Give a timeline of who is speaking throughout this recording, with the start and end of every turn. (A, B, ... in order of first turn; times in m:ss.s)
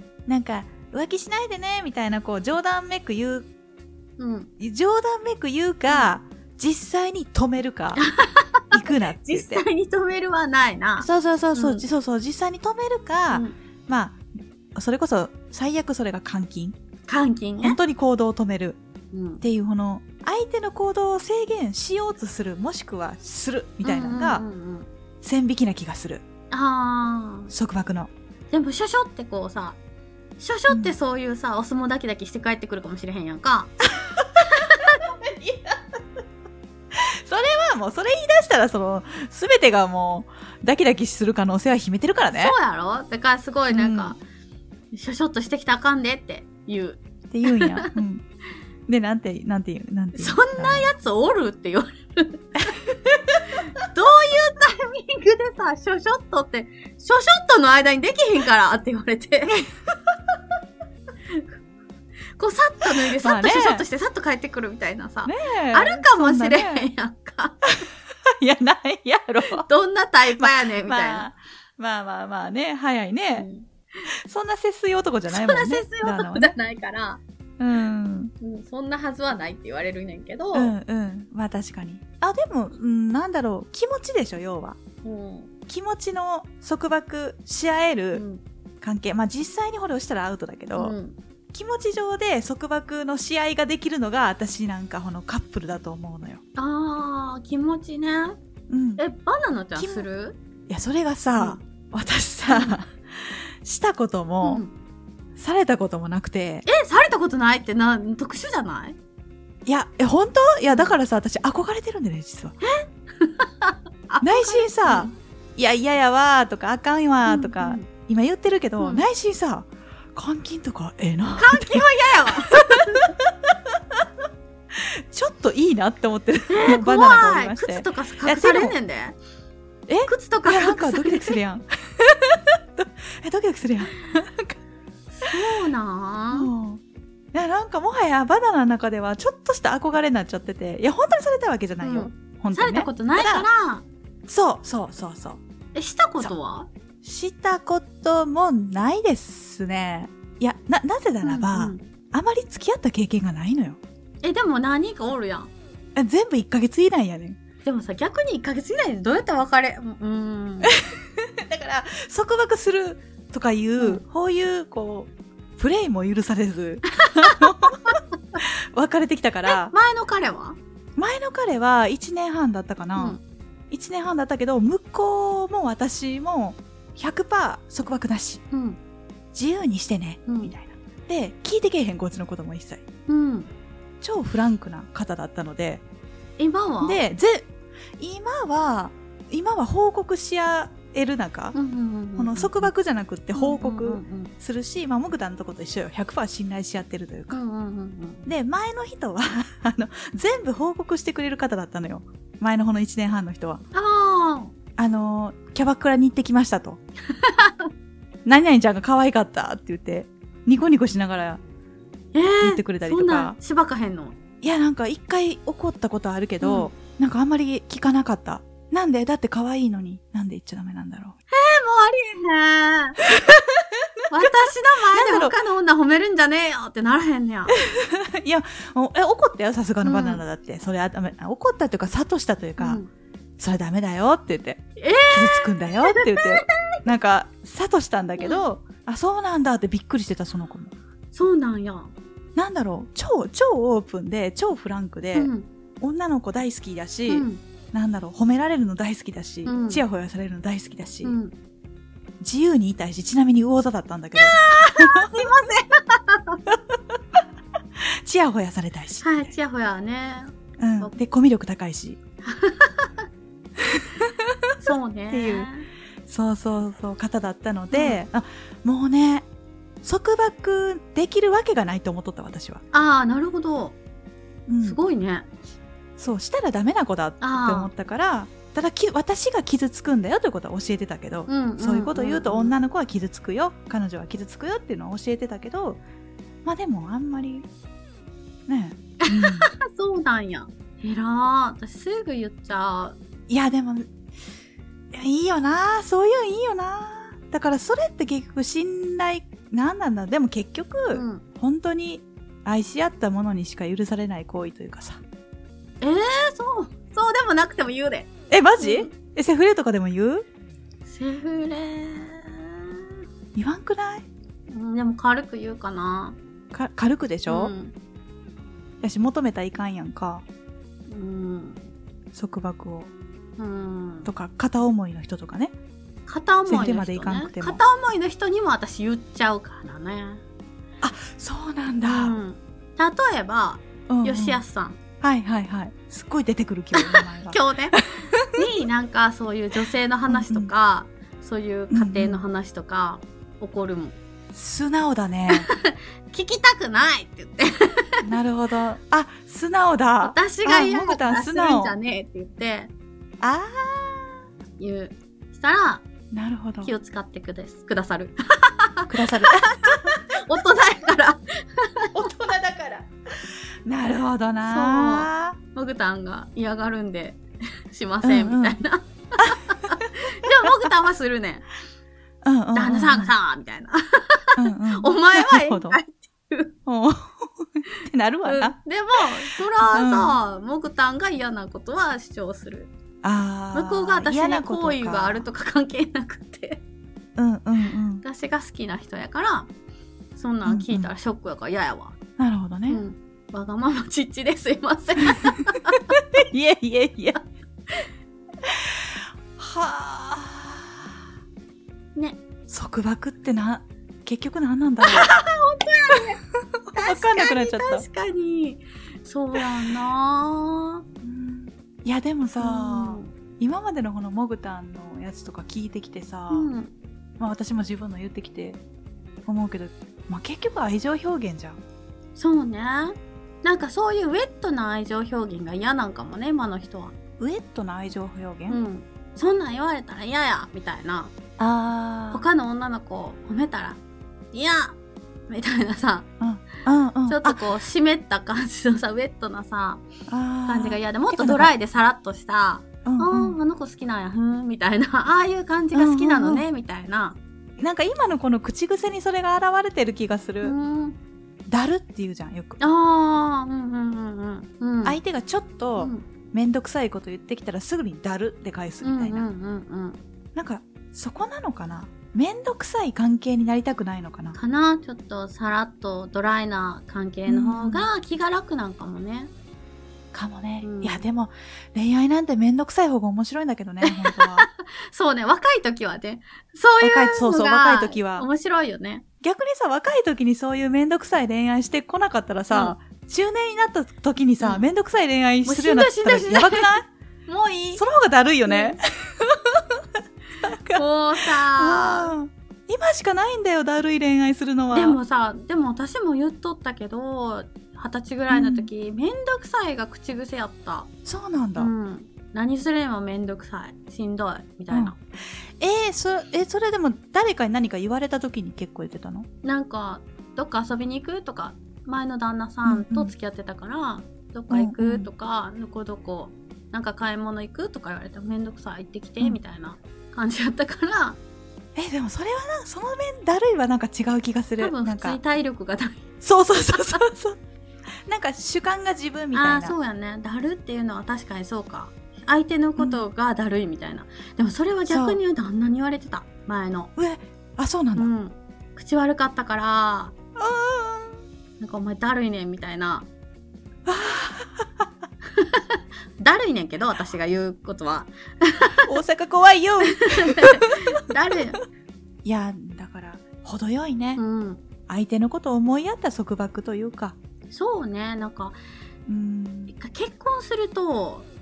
0:00.3-0:03.5 A
0:04.2-0:04.5 B
0:04.6-0:08.0 A
0:08.0-0:11.8 B
0:08.7-0:09.6 A
0:11.0-0:14.2 A
0:13.3-0:13.6 B
0:14.7-0:16.8 A
0:17.1-0:17.8 B
0:17.6-0:18.8 A
0:19.1-0:19.4 B
0:19.4-0:24.4 A
0:23.8-0:24.9 B
0:25.2-0:26.2 A
0:26.5-0:27.5 B
0:27.5-0:28.1 A
0:28.5-0:29.8 B
0:30.4-0:33.8 B
0:30.7-0:30.9 A
0:34.2-0:36.0 A
0:34.4-0:35.0 B
0:36.9-0:42.6 A
0:42.3-0:44.2 B
0:43.7-0:44.1 A
0:44.9-0:47.9 B
0:47.3-0:48.2 A
0:48.9-0:50.9 A
0:50.1-0:52.7 B
0:53.1-0:53.4 A
0:53.5-0:59.7 B
1:02.4-1:07.7 B
1:03.1-1:03.8 A
1:05.2-1:06.8 A
1:08.2-1:09.7 A
1:09.6-1:11.3 B
1:10.3-1:13.5 A
1:13.4-1:13.7 B
1:14.1-1:16.5 A
1:15.3-1:17.2 B
1:17.6-1:18.3 A
1:18.4-1:20.7 B
1:20.5-1:24.8 A
1:25.0-1:25.5 B
1:25.7-1:28.2 A
1:28.1-1:28.4 B
1:28.8-1:30.9 A
1:30.8-1:31.2 B
1:31.5-1:36.4 A
1:36.6-1:38.4 B
1:38.7-1:39.0 A
1:39.0-1:40.4 B
1:39.8-1:40.1 A
1:40.7-1:44.6 A
1:41.4-1:41.6 B
1:42.5-1:42.8 B
1:44.4-1:44.7 B
1:45.4-1:46.6 A
1:46.6-1:49.0 B
1:49.6-1:52.6 A
1:50.7-1:51.0 B
1:52.6-1:55.1 B
1:54.2-2:04.0 A
1:57.2-1:57.9 B
1:58.8-1:59.0 B
2:01.4-2:03.1 B
2:04.7-2:08.7 A
2:06.5-2:09.2 B
2:09.9-2:14.6 A
2:10.0-2:11.4 B
2:15.1-2:16.5 B
2:16.3-2:16.8 A
2:17.3-2:23.5 A
2:21.8-2:23.8 B
2:24.3-2:25.4 A
2:25.7-2:26.7 B
2:27.0-2:33.8 A
2:31.2-2:31.9 B
2:34.2-2:35.5 B
2:35.9-2:37.4 A
2:37.6-2:40.8 B
2:40.7-2:49.7 A
2:47.0-2:48.0 B
2:49.4-2:50.6 B
2:51.0-2:53.2 A
2:53.7-2:58.4 A
2:58.5-2:58.8 B
2:59.3-3:02.8 A
3:00.3-3:00.5 B
3:03.1-3:03.5 B
3:04.0-3:05.8 A
3:06.4-3:07.0 B
3:06.8-3:11.6 A
3:11.5-3:12.7 B
3:12.2-3:17.4 A
3:13.3-3:14.3 B
3:17.3-3:18.3 B
3:18.2-3:23.6 A
3:23.7-3:24.5 B
3:24.8-3:26.8 A
3:27.1-3:27.7 B
3:28.2-3:31.4 A
3:32.1-3:34.2 B
3:32.4-3:33.4 A
3:34.4-3:41.2 A
3:36.4-3:36.7 B
3:41.3-3:43.0 B
3:43.1-3:44.3 A
3:44.1-3:47.6 B
3:44.9-3:45.4 A
3:47.5-3:52.8 A
3:49.8-3:50.2 B
3:52.6-3:52.9 B
3:53.4-4:00.7 A
3:54.8-3:56.8 B
3:58.2-3:58.4 B
4:01.1-4:01.9 B
4:02.4-4:11.2 A
4:05.1-4:05.5 B
4:07.1-4:07.4 B
4:09.4-4:09.8 B
4:11.0-4:11.3 B
4:12.2-4:15.3 A
4:14.2-4:16.4 B
4:16.5-4:16.8 A
4:17.8-4:19.3 A
4:19.0-4:20.9 B
4:20.6-4:22.0 A
4:22.2-4:23.0 B
4:23.7-4:24.5 A
4:24.6-4:25.7 B
4:25.1-4:25.5 A
4:26.1-4:29.2 A
4:27.7-4:28.0 B
4:29.8-4:32.6 A
4:32.7-4:33.8 B
4:34.5-4:34.8 A
4:34.6-4:35.3 B
4:36.0-4:45.8 A
4:37.2-4:37.7 B
4:41.3-4:42.5 B
4:46.4-4:47.4 A
4:48.5-4:49.5 A
4:49.0-4:53.0 B
4:53.3-4:53.9 A
4:54.9-5:05.0 A
5:00.9-5:01.2 B
5:05.8-5:08.9 B
5:08.3-5:10.2 A
5:10.8-5:12.7 B
5:13.3-5:14.0 A
5:14.5-5:16.2 B
5:16.5-5:17.5 A
5:17.3-5:17.7 B
5:18.8-5:20.2 A
5:20.9-5:21.7 B
5:22.1-5:22.9 A
5:23.4-5:24.1 B
5:24.0-5:25.5 A
5:26.1-5:30.2 B
5:26.4-5:27.6 A
5:30.8-5:32.2 A
5:31.8-5:34.8 B
5:33.9-5:34.4 A
5:35.0-5:38.3 A
5:36.7-5:44.0 B
5:40.1-5:40.5 A
5:41.7-5:42.2 A
5:44.3-5:45.5 A
5:45.3-5:48.0 B
5:48.0-5:51.8 A
5:50.0-5:52.7 B
5:53.2-5:54.2 A
5:54.6-5:55.8 B
5:56.1-5:56.7 A
5:56.6-6:02.0 B
5:58.9-6:00.0 A
6:01.9-6:05.4 A
6:04.4-6:11.5 B
6:08.0-6:08.6 A
6:10.2-6:10.5 A
6:12.2-6:13.1 A
6:12.5-6:16.5 B
6:14.4-6:15.8 A
6:16.6-6:18.6 A
6:18.2-6:22.7 B
6:19.7-6:20.2 A
6:23.0-6:25.2 A
6:23.5-6:26.6 B
6:27.2-6:28.0 A
6:28.0-6:29.5 B
6:30.1-6:32.0 B
6:30.4-6:30.9 A
6:32.2-6:32.8 A
6:32.7-6:36.0 B
6:35.2-6:35.4 A
6:36.2-6:37.2 A
6:38.4-6:40.9 A
6:41.9-6:42.2 B
6:42.5-6:45.1 A
6:44.8-6:46.2 B
6:46.7-6:50.8 B
6:46.8-6:47.8 A
6:51.0-6:56.5 A
6:52.4-6:53.1 B
6:56.3-6:56.7 B
6:57.2-6:58.6 A
6:59.2-7:01.6 A
7:02.2-7:06.9 B
7:07.2-7:08.6 A
7:08.5-7:11.2 B
7:11.4-7:12.2 A
7:12.1-7:13.8 B
7:14.3-7:14.8 B
7:15.3-7:16.1 B
7:16.2-7:17.4 A
7:17.1-7:19.8 B
7:20.1-7:21.5 A
7:20.4-7:27.2 B
7:22.8-7:23.4 A
7:25.7-7:26.4 A
7:27.6-7:30.6 A
7:30.4-7:31.0 B
7:31.5-7:32.6 A
7:32.6-7:35.0 B
7:34.8-7:39.3 A
7:35.8-7:36.0 B
7:38.8-7:40.0 B
7:40.3-7:44.4 A
7:44.3-7:49.3 B
7:47.3-7:47.9 A
7:50.1-7:54.5 A
7:50.6-7:51.0 B
7:53.8-7:59.0 B
7:56.8-7:58.3 A
7:59.2-8:06.9 A
8:02.5-8:02.8 B
8:04.4-8:04.6 B
8:05.4-8:07.8 B
8:07.8-8:09.8 A
8:08.4-8:08.8 B
8:10.4-8:15.0 A
8:10.7-8:12.1 B
8:14.7-8:20.9 B
8:18.3-8:18.7 A
8:21.0-8:21.7 A
8:21.6-8:25.0 B
8:25.6-8:29.3 A
8:29.4-8:41.2 B
8:32.6-8:33.1 A
8:34.5-8:35.1 A
8:41.7-8:45.2 A
8:44.6-8:46.0 B
8:46.2-8:47.4 A
8:46.6-8:47.0 B
8:48.0-8:49.8 A
8:49.3-8:56.9 B
8:52.8-8:53.0 A
8:54.9-8:55.2 A
8:57.0-8:58.1 A
8:58.0-9:00.1 B
9:00.4-9:01.2 A
9:01.6-9:03.1 B
9:03.8-9:04.9 A
9:05.3-9:08.9 B
9:08.9-9:10.8 A
9:09.8-9:11.6 B
9:12.2-9:14.2 A
9:14.2-9:14.6 B
9:14.9-9:17.2 A
9:17.5-9:18.6 B
9:19.1-9:19.7 A
9:19.7-9:21.3 B